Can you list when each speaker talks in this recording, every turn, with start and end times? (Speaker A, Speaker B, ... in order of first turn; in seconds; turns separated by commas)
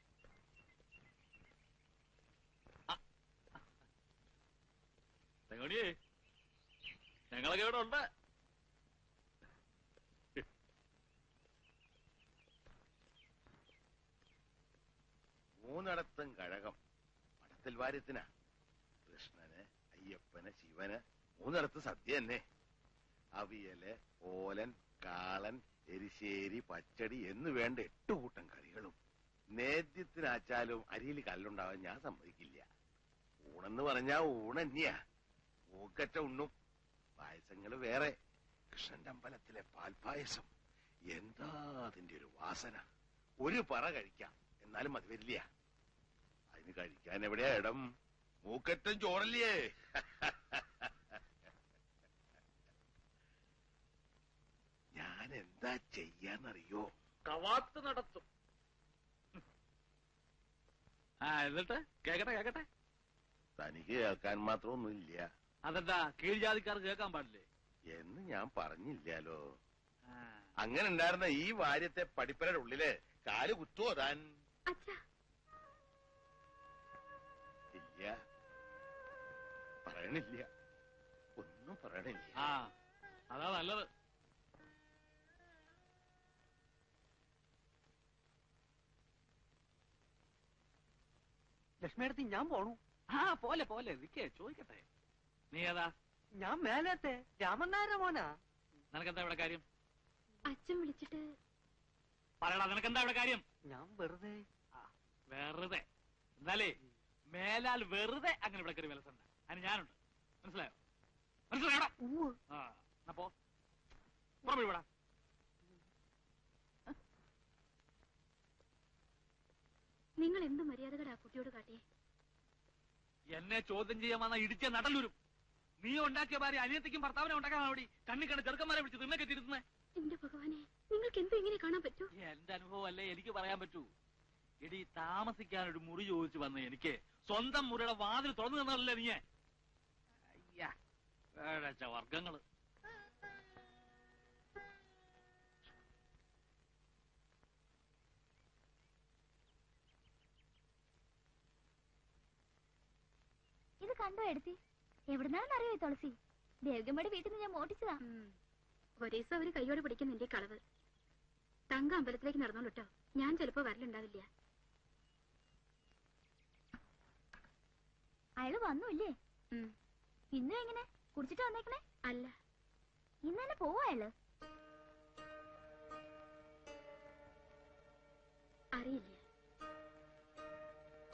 Speaker A: 5.5-5.9, Speaker A: 7.3-8.1, Speaker B: 15.6-16.8, Speaker B: 17.4-18.3, Speaker B: 19.1-22.4, Speaker B: 23.4-29.0, Speaker B: 29.6-32.6, Speaker B: 33.5-35.0, Speaker B: 35.8-36.5, Speaker B: 37.2-38.1, Speaker B: 38.7-40.5, Speaker B: 41.1-42.8, Speaker B: 43.4-45.4, Speaker B: 46.5-47.8, Speaker B: 48.4-51.2, Speaker B: 55.0-56.9, Speaker A: 57.3-58.2, Speaker A: 61.2-62.7, Speaker B: 63.6-65.3, Speaker A: 65.7-67.5, Speaker B: 67.9-69.4, Speaker A: 70.1-70.5, Speaker B: 70.6-74.2, Speaker C: 74.7-75.0, Speaker B: 77.7-78.1, Speaker B: 79.8-80.5, Speaker B: 81.4-82.5, Speaker A: 82.4-82.7, Speaker A: 83.3-83.9, Speaker D: 91.8-92.8, Speaker A: 93.1-94.8, Speaker A: 95.5-95.9, Speaker D: 96.4-98.3, Speaker A: 98.9-99.6, Speaker C: 100.5-101.2, Speaker A: 102.4-103.4, Speaker D: 103.6-104.4, Speaker A: 104.8-105.8, Speaker A: 106.4-106.8, Speaker A: 107.3-110.8, Speaker A: 111.5-111.9, Speaker D: 112.0-112.4, Speaker A: 112.5-113.3, Speaker A: 114.5-114.8, Speaker C: 120.2-121.8, Speaker A: 123.4-125.2, Speaker A: 125.8-129.6, Speaker C: 130.0-132.1, Speaker A: 132.2-133.9, Speaker A: 134.6-139.2, Speaker A: 140.3-140.7, Speaker A: 141.4-142.4, Speaker E: 153.8-154.6, Speaker E: 155.1-158.0, Speaker C: 158.0-158.3, Speaker C: 159.0-160.6, Speaker C: 161.7-164.3, Speaker E: 168.4-169.2, Speaker E: 170.3-171.8, Speaker C: 172.1-172.3, Speaker E: 173.2-174.1, Speaker C: 178.8-179.2